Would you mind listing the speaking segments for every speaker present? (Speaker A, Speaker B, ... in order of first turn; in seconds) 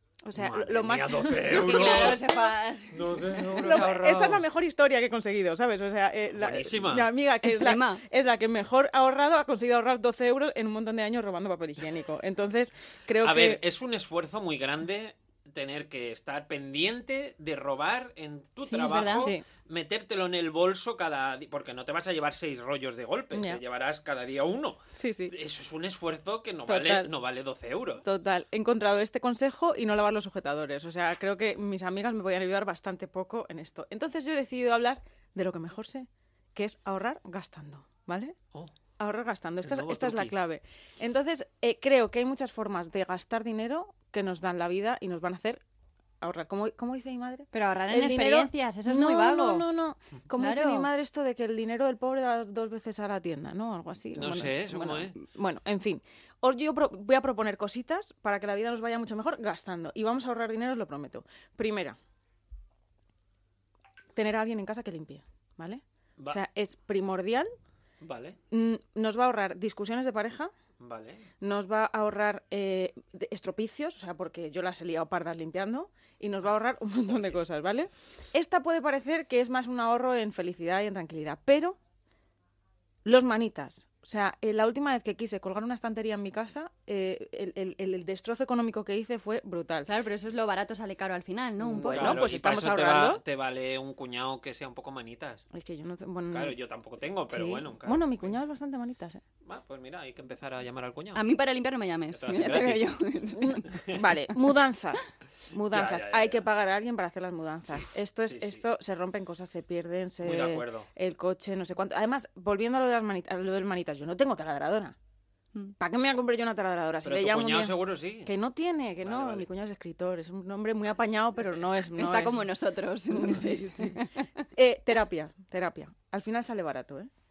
Speaker A: 0.2-2.5, 3.3-13.6, 19.2-19.4, 23.3-23.6, 24.9-25.3, 26.6-27.1, 28.0-38.4, 39.0-45.6, 46.2-62.0, 64.1-67.5, 68.5-70.5, 71.4-81.8, 83.0-89.9, 91.6-93.2, 95.5-96.5, 97.3-99.2, 103.3-115.0, 115.8-122.5, 123.1-127.1
Speaker B: 0.3-2.2, 2.9-4.4, 6.3-7.1, 13.2-28.0, 39.6-40.3, 54.1-55.2, 68.0-68.4, 70.8-71.3, 77.1-77.3, 91.8-95.4, 96.3-98.4, 99.4-101.2, 102.1-102.9, 103.7-104.0, 105.7-106.5, 108.2-108.6, 110.2-110.9, 117.0-118.3, 119.0-119.5
Speaker C: 1.5-3.1, 7.4-8.0, 18.7-19.3, 47.5-49.7, 50.4-50.9, 89.9-92.2, 101.1-103.6, 122.0-124.3